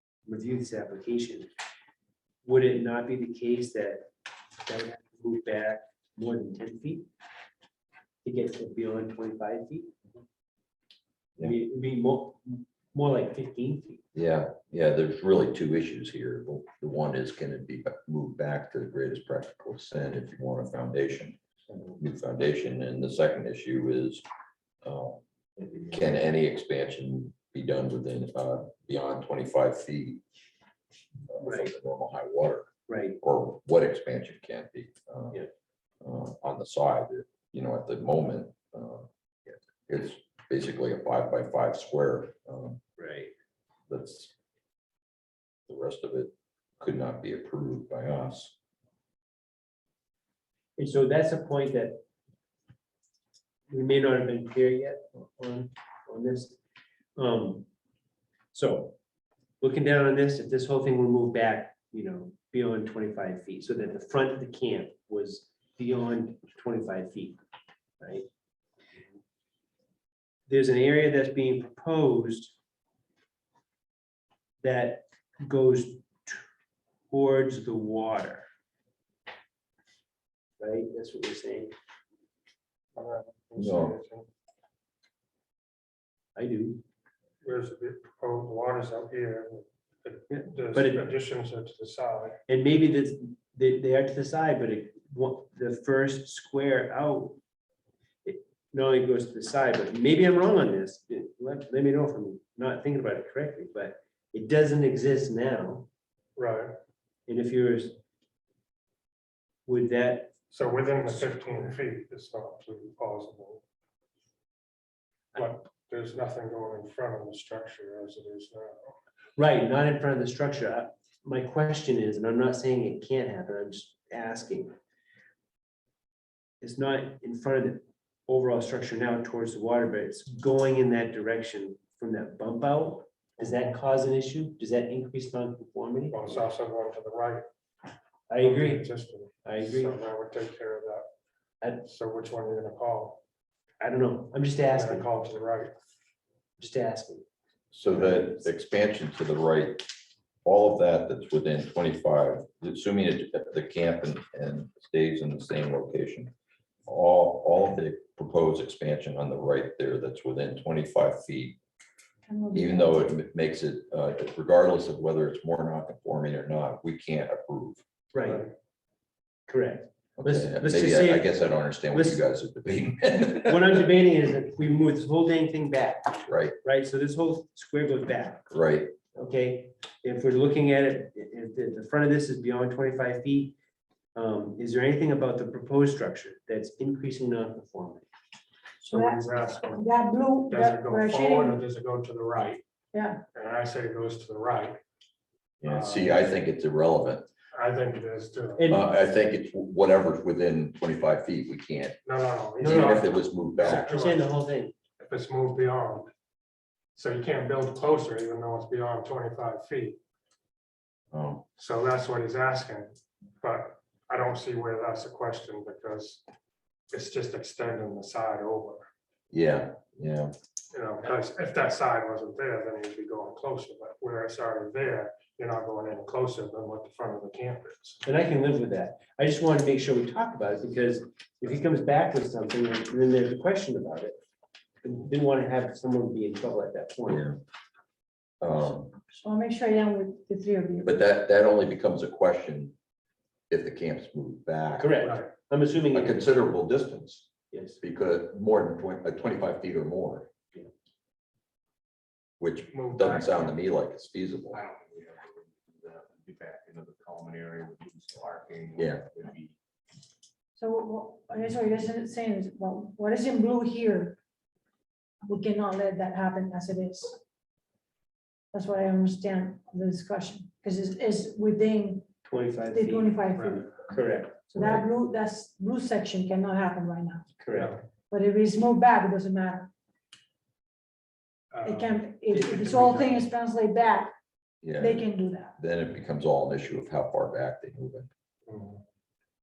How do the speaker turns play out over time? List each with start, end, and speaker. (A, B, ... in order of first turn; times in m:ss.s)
0:00.3-0:01.5 A
0:02.4-0:04.1 A
0:04.6-0:07.1 A
0:08.2-0:09.9 A
0:11.4-0:14.0 A
0:14.1-0:21.4 B
0:22.0-0:24.2 B
0:24.8-0:25.2 B
0:25.9-0:30.2 B
0:31.3-0:35.4 B
0:31.4-0:31.7 A
0:32.9-0:33.2 A
0:36.0-0:39.1 B
0:39.9-0:42.8 B
0:43.0-0:43.3 A
0:43.9-0:44.3 B
0:45.7-0:48.6 B
0:50.8-0:52.0 A
0:53.7-0:56.6 A
0:57.2-0:57.7 A
0:58.5-0:59.0 A
0:59.6-1:07.4 A
1:08.0-1:08.3 A
1:10.5-1:12.6 A
1:14.6-1:16.5 A
1:17.1-1:18.5 A
1:20.6-1:21.7 A
1:23.0-1:24.3 C
1:23.6-1:24.0 B
1:26.4-1:26.8 A
1:27.4-1:32.4 C
1:30.3-1:31.1 A
1:32.5-1:37.4 A
1:38.2-1:45.9 A
1:46.4-1:46.7 C
1:47.3-1:48.0 A
1:49.7-1:50.3 A
1:50.5-1:53.6 C
1:55.4-1:59.0 C
1:59.4-2:04.8 A
2:06.6-2:16.4 A
2:16.1-2:17.4 C
2:18.3-2:18.9 A
2:18.4-2:21.1 C
2:19.4-2:20.0 A
2:21.6-2:21.9 A
2:21.8-2:23.2 C
2:23.8-2:25.1 A
2:24.7-2:25.7 C
2:26.6-2:27.3 A
2:27.7-2:29.9 B
2:27.9-2:28.4 A
2:30.4-2:36.3 B
2:36.9-2:41.6 B
2:42.3-2:43.0 D
2:42.5-2:47.8 B
2:48.1-2:48.5 A
2:49.5-2:51.3 A
2:50.2-2:53.8 B
2:51.9-2:52.2 A
2:53.4-2:58.5 A
2:56.3-2:56.6 B
2:58.5-2:58.9 B
2:59.1-3:03.6 A
3:04.2-3:08.0 A
3:08.8-3:11.6 D
3:08.9-3:09.8 C
3:10.5-3:12.6 C
3:12.9-3:13.2 D
3:13.3-3:14.8 C
3:15.6-3:17.3 B
3:15.6-3:16.1 C
3:17.5-3:18.6 C
3:18.6-3:18.9 A
3:18.7-3:22.0 B
3:22.1-3:24.2 C
3:22.6-3:23.9 B
3:22.6-3:22.9 A
3:23.6-3:24.7 A
3:25.0-3:26.1 C
3:27.0-3:30.0 C
3:31.1-3:31.4 B
3:31.6-3:36.2 C
3:36.9-3:38.9 C
3:39.3-3:40.3 B
3:40.7-3:48.0 C
3:48.0-3:54.2 A
3:54.8-3:57.3 A
3:57.1-3:57.4 B
3:58.4-3:59.0 B
3:59.1-4:00.9 D
4:00.8-4:02.7 B
4:03.5-4:05.0 B
4:04.8-4:06.2 A
4:05.0-4:05.3 C
4:05.9-4:07.3 B
4:07.5-4:07.8 A
4:07.8-4:10.3 B
4:12.4-4:14.6 B
4:12.7-4:13.5 C
4:14.5-4:19.5 E
4:18.8-4:19.0 B
4:20.6-4:24.2 D
4:25.2-4:27.2 D
4:28.5-4:32.1 D
4:32.2-4:34.8 A
4:32.7-4:33.7 D
4:34.5-4:37.3 D
4:37.4-4:37.8 A
4:37.5-4:37.8 C
4:38.1-4:39.7 D
4:41.5-4:43.3 C
4:41.6-4:44.1 D
4:44.6-4:48.1 B
4:44.8-4:45.6 D
4:48.5-4:48.8 C